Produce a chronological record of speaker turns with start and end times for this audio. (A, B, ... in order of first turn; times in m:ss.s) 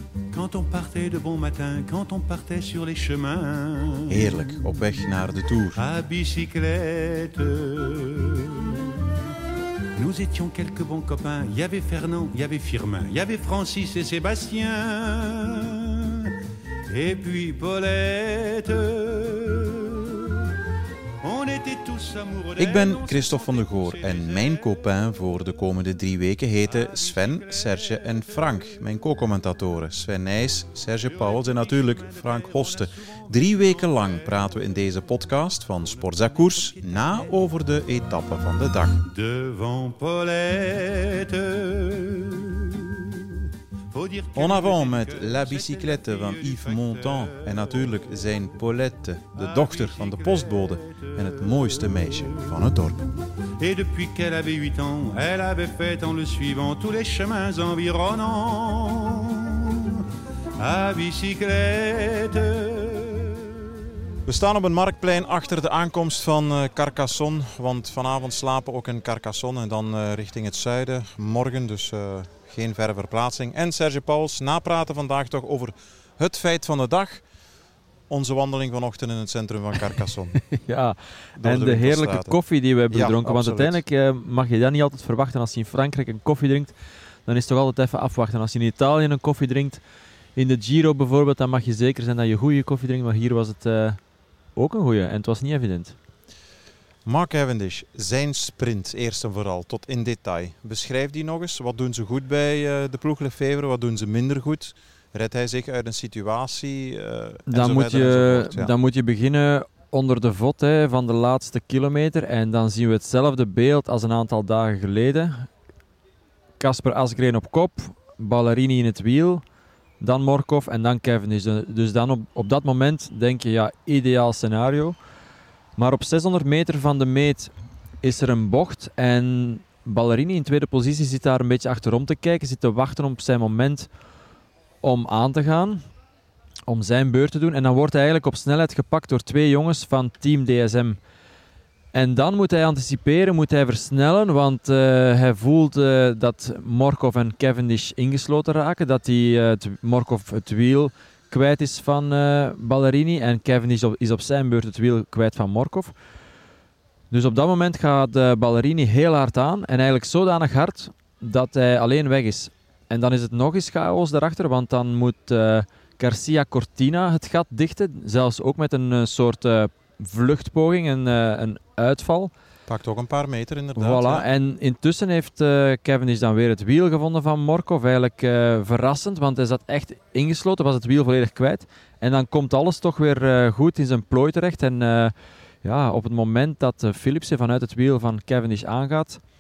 0:00.3-0:04.4 A
0:04.1-0:05.8 B
0:05.8-0:09.1 A
0:10.0-0:16.4 A
0:16.9-0:20.5 A
0:21.2-0:24.4 A
0:22.6-0:39.1 B
0:39.1-0:46.9 A
0:44.4-0:53.1 B
0:53.6-1:00.1 A
1:00.6-1:03.8 A
1:04.2-1:17.2 B
1:18.1-1:20.4 B
1:20.4-1:26.7 C
1:21.4-1:22.4 B
1:22.9-1:23.8 B
1:27.3-1:29.8 C
1:30.4-1:34.0 C
1:34.6-1:36.0 C
1:37.1-1:48.7 B
1:47.5-1:55.5 C
1:56.6-1:59.4 C
2:00.0-2:05.0 C
2:05.8-2:13.9 C
2:14.8-2:15.8 C
2:16.7-2:21.0 C
2:21.9-2:36.0 C
2:37.1-2:52.3 C
2:52.7-2:54.3 B
2:53.8-3:09.2 C